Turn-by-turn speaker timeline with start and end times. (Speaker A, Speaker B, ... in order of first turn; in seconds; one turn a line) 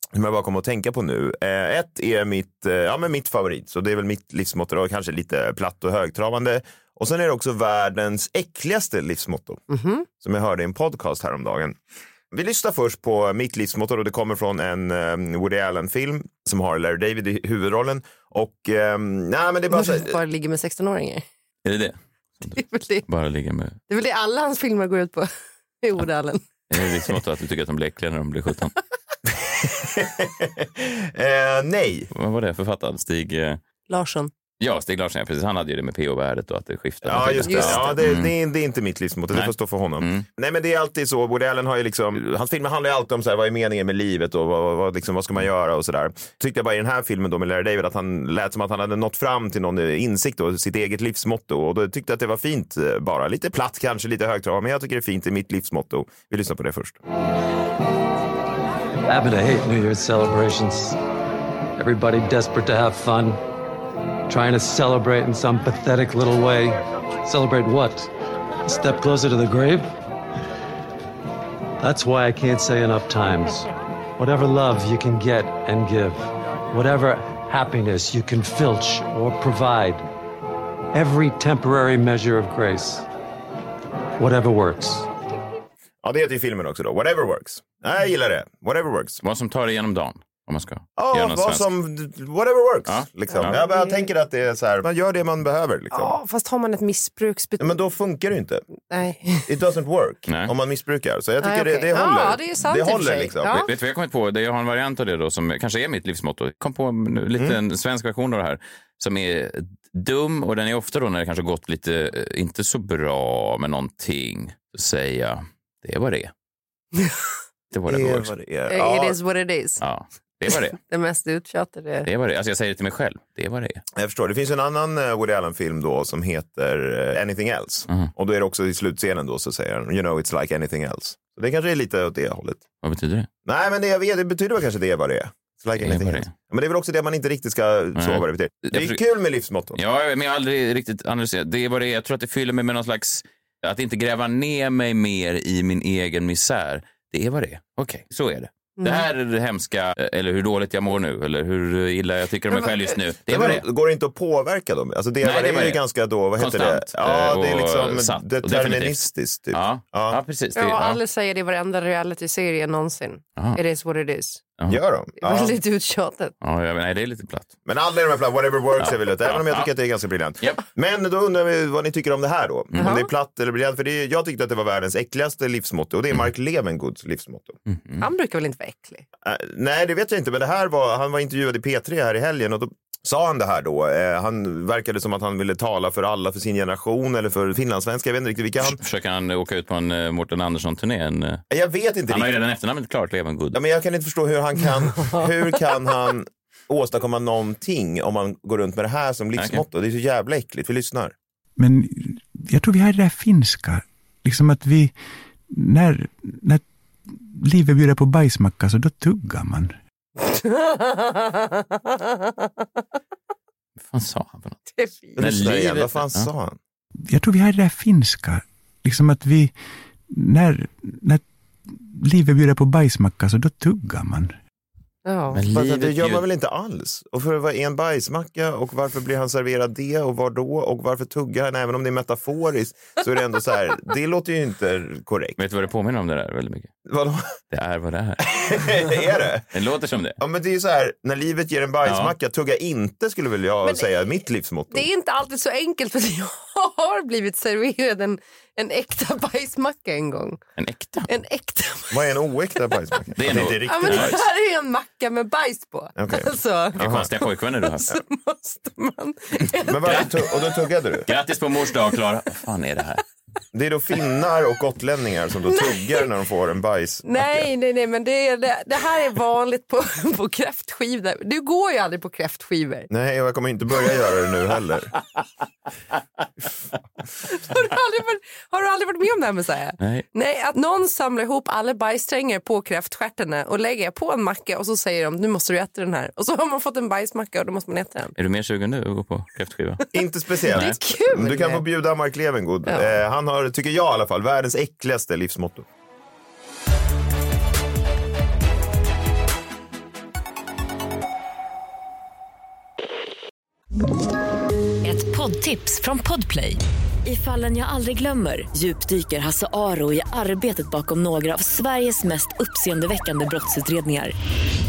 Speaker A: 0.1-9.6
Speaker B: 9.7-10.1
Speaker A: 10.2-11.8
Speaker A: 12.3-20.2
Speaker B: 19.7-21.2
Speaker C: 21.6-23.8
Speaker B: 22.6-23.1
Speaker B: 23.9-25.3
Speaker B: 25.8-26.4
Speaker C: 26.7-28.7
Speaker A: 29.3-32.1
Speaker C: 32.1-33.6
Speaker B: 33.9-34.3
Speaker C: 34.6-38.3
Speaker A: 37.0-57.0
Speaker B: 37.5-38.0
Speaker C: 39.3-40.2
Speaker D: 59.1-61.0
Speaker D: 61.8-63.4
Speaker D: 64.3-68.1
Speaker D: 68.7-69.9
Speaker D: 71.8-80.0
Speaker D: 80.9-83.1
Speaker D: 84.2-85.1
Speaker A: 86.0-89.2
Speaker C: 89.2-91.6
Speaker A: 91.0-96.2
Speaker C: 92.8-93.6
Speaker B: 93.3-94.1
Speaker B: 95.9-97.8
Speaker A: 97.6-98.7
Speaker B: 98.9-99.5
Speaker A: 99.5-103.7
Speaker C: 100.3-100.5
Speaker B: 101.4-103.7
Speaker C: 103.7-116.3
Speaker C: 117.7-118.3
Speaker A: 117.9-119.2
Speaker B: 118.7-119.8
Speaker C: 119.8-120.8
Speaker B: 120.8-122.1
Speaker C: 122.0-123.8
Speaker A: 123.9-132.6
Speaker C: 132.8-133.3
Speaker A: 133.4-139.8
Speaker C: 135.8-136.3
Speaker C: 137.9-139.0
Speaker C: 139.7-153.6
Speaker B: 148.8-149.1
Speaker A: 153.3-160.2
Speaker C: 155.2-155.8
Speaker C: 156.4-161.0
Speaker B: 160.6-164.4
Speaker A: 164.7-165.6
Speaker B: 165.2-166.3
Speaker C: 166.4-167.5
Speaker A: 167.7-177.6
Speaker C: 168.8-169.7
Speaker B: 172.8-173.1
Speaker C: 177.7-178.0
Speaker B: 178.0-179.0
Speaker A: 179.2-188.8
Speaker C: 188.6-191.4
Speaker A: 191.5-192.3
Speaker C: 192.1-193.6
Speaker A: 193.5-201.1
Speaker B: 194.9-195.3
Speaker C: 199.4-199.6
Speaker E: 201.6-204.9
Speaker E: 205.5-209.8
Speaker B: 210.2-212.3
Speaker C: 213.8-214.6
Speaker B: 214.7-215.2
Speaker C: 215.2-216.3
Speaker A: 215.2-216.6
Speaker E: 217.1-219.5
Speaker E: 220.1-224.3
Speaker B: 225.1-225.4
Speaker C: 225.3-226.2
Speaker A: 225.5-235.4
Speaker C: 235.4-236.7
Speaker A: 236.8-237.3
Speaker C: 237.5-238.6
Speaker A: 238.2-239.4
Speaker C: 239.5-240.2
Speaker A: 240.2-244.9
Speaker C: 241.8-242.1
Speaker B: 244.7-250.4
Speaker C: 250.6-251.1
Speaker B: 251.1-252.2
Speaker A: 251.9-254.2
Speaker C: 253.2-254.2
Speaker B: 253.3-256.8
Speaker A: 256.0-257.1
Speaker C: 256.8-258.0
Speaker B: 257.6-260.6
Speaker A: 259.6-261.1
Speaker C: 259.9-260.1
Speaker C: 261.1-263.0
Speaker A: 263.5-267.5
Speaker B: 265.5-266.1
Speaker B: 267.0-272.9
Speaker A: 272.9-274.9
Speaker B: 277.3-288.1
Speaker C: 279.8-280.0
Speaker C: 288.2-289.8
Speaker A: 289.9-295.6
Speaker B: 290.4-291.6
Speaker B: 292.7-292.9
Speaker F: 304.8-314.1